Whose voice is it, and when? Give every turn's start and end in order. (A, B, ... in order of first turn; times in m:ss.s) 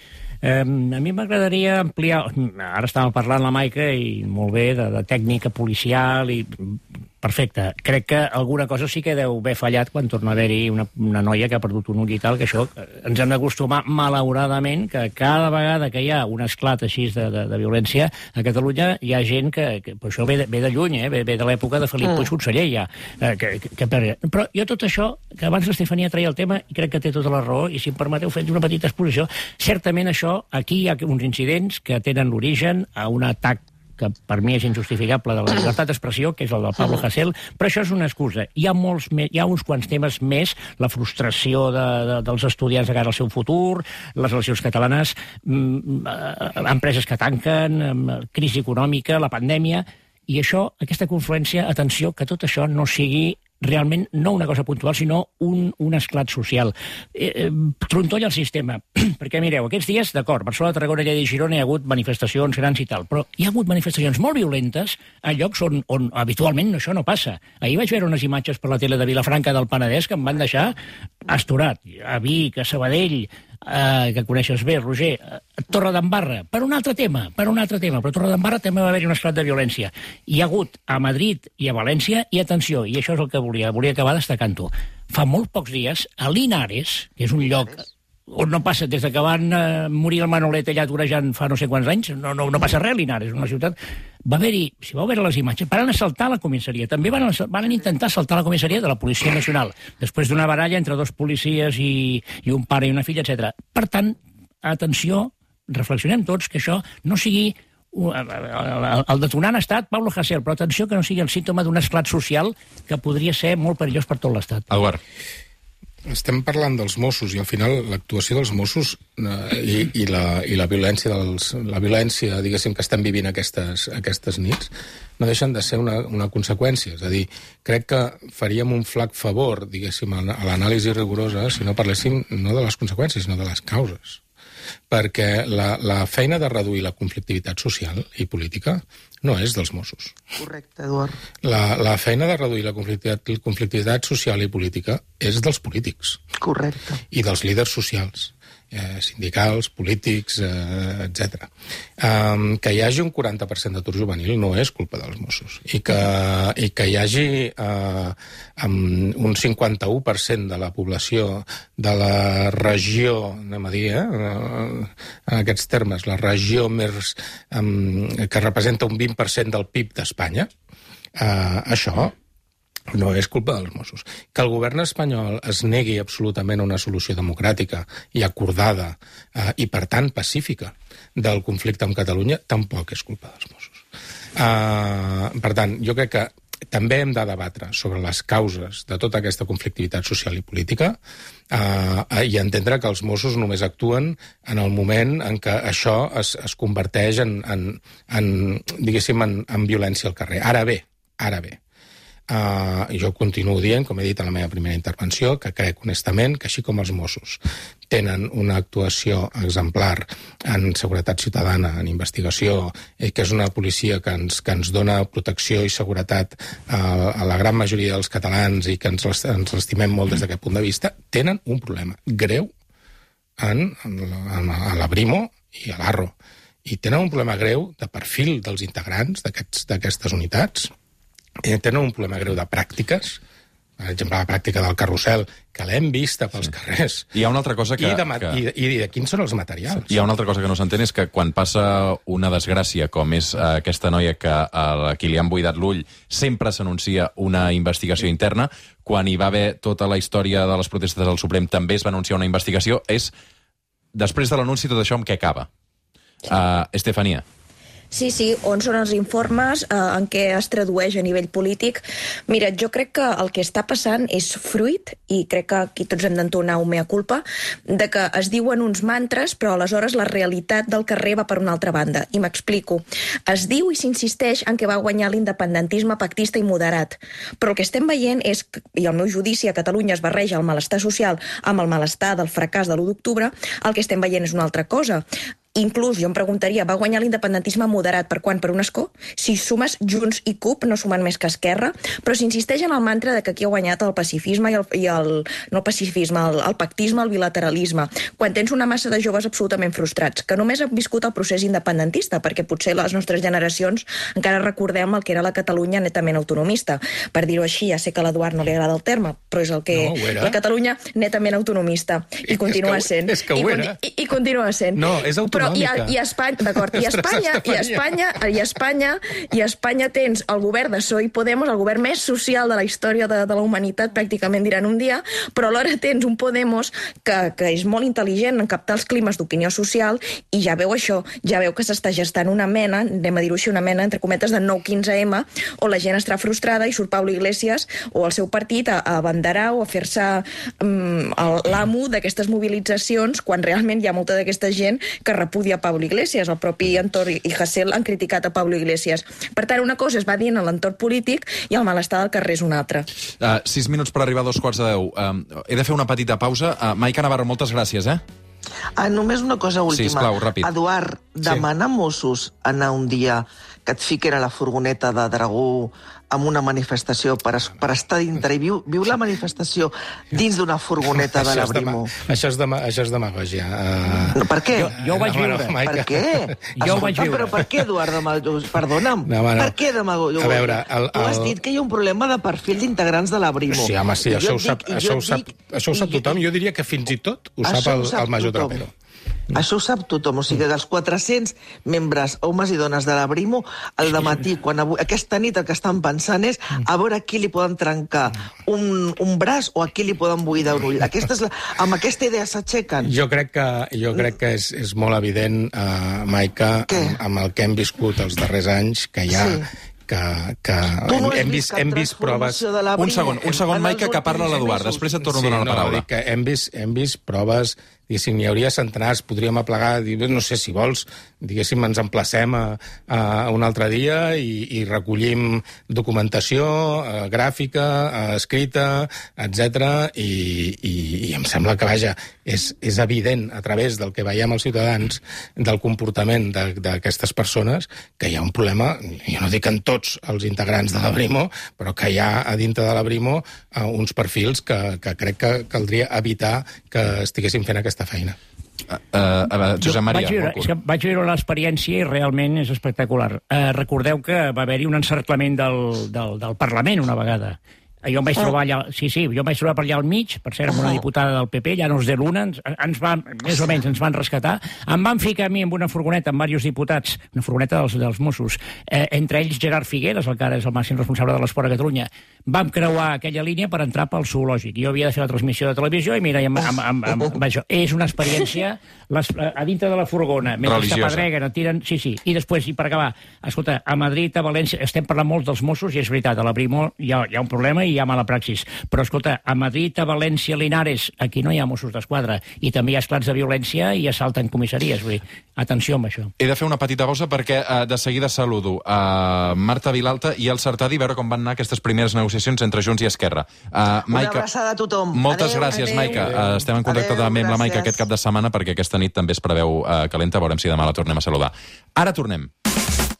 0:00.4-1:54.7 A
1:27.4-1:27.7 B
1:54.7-1:55.0 C
1:56.1-2:14.2 D
2:14.9-2:20.1 D
2:20.4-2:21.2 B
2:21.4-2:26.2 D
2:26.4-2:27.0 B
2:27.1-2:31.5 D
2:32.0-2:50.5 D
2:51.2-2:52.1 D
2:52.9-3:03.8 D
3:04.4-3:11.0 D
3:11.5-3:21.6 D
3:22.3-3:42.5 D
3:43.4-3:50.7 D
3:51.4-3:53.2 D
3:53.8-3:57.1 D
3:57.1-3:58.4 C
3:57.8-4:00.0 D
3:59.8-4:13.1 C
4:13.9-4:15.5 C
4:16.2-4:17.2 C
4:17.9-4:45.0 E
4:45.5-5:14.8 E
5:09.7-5:10.4 D
5:12.2-5:13.8 D
5:14.8-5:17.8 D
5:15.3-5:52.9 E
5:53.2-5:58.0 C
5:58.8-6:11.9 B
5:59.7-6:00.5 C
6:11.0-6:14.2 D
6:14.2-6:14.7 B
6:14.5-6:15.6 A
6:14.8-6:17.5 D
6:15.6-6:26.1 B
6:16.6-6:17.5 A
6:19.0-6:19.5 D
6:20.2-6:21.3 D
6:23.5-6:28.7 D
6:27.4-6:28.6 B
6:29.3-6:42.9 B
6:42.8-6:52.4 D
6:46.7-6:47.0 B
6:49.1-6:49.5 B
6:50.9-6:54.9 B
6:52.8-6:55.8 C
6:55.0-7:28.2 D
7:28.7-7:30.5 C
7:29.6-8:16.1 A
8:00.4-8:01.1 C
8:16.2-8:24.2 C
8:23.9-8:27.8 B
8:24.9-8:32.3 C